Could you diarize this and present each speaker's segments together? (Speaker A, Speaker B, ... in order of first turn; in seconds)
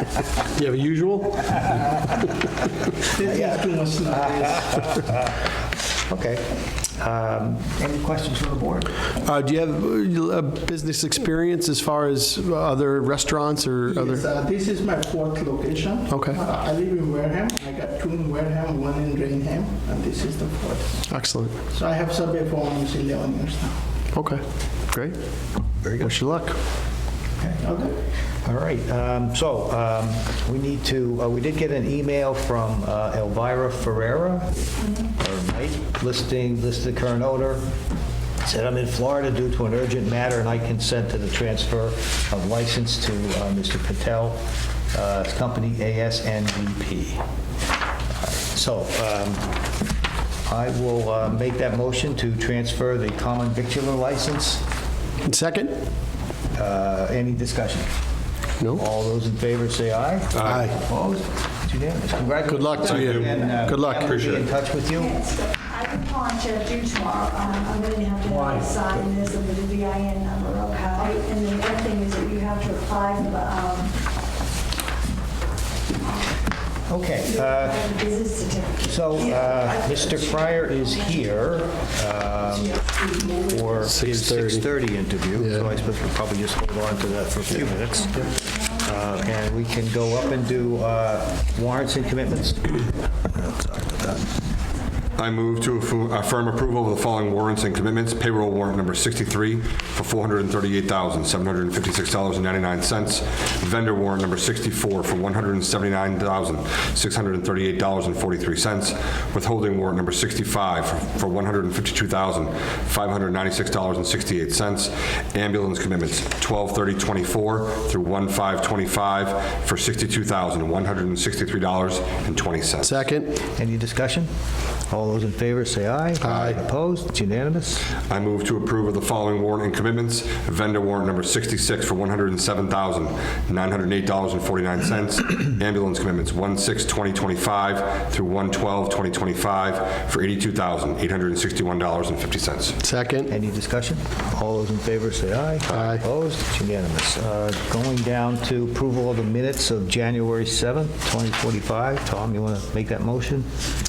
Speaker A: 0.6-1.7, 9.2-14.2, 16.1-16.4, 21.1-21.6, 24.1-25.1, 26.0-26.6, 55.2-55.8, 60.4-60.7, 62.5-64.1, 83.9-84.7, 122.8-123.4, 126.2-126.5, 142.8-143.3, 145.7-146.0
Speaker B: 3.1-5.0, 13.8-21.1, 21.7-23.8, 27.6-28.0
Speaker C: 3.3-3.5, 4.2-5.3, 6.0-8.9, 25.8-26.2, 28.4-37.6, 38.4-44.4, 44.9-47.2, 48.5-49.5, 50.5-54.6, 56.5-57.9, 58.7-65.2, 76.9-77.9, 78.8-94.3, 123.6-124.3, 124.9-127.9, 143.3-153.5
Speaker D: 60.3-60.7, 62.8-64.5, 95.2-122.9, 128.1-142.8
Speaker E: 65.0-74.0, 77.3-81.4, 87.9-88.9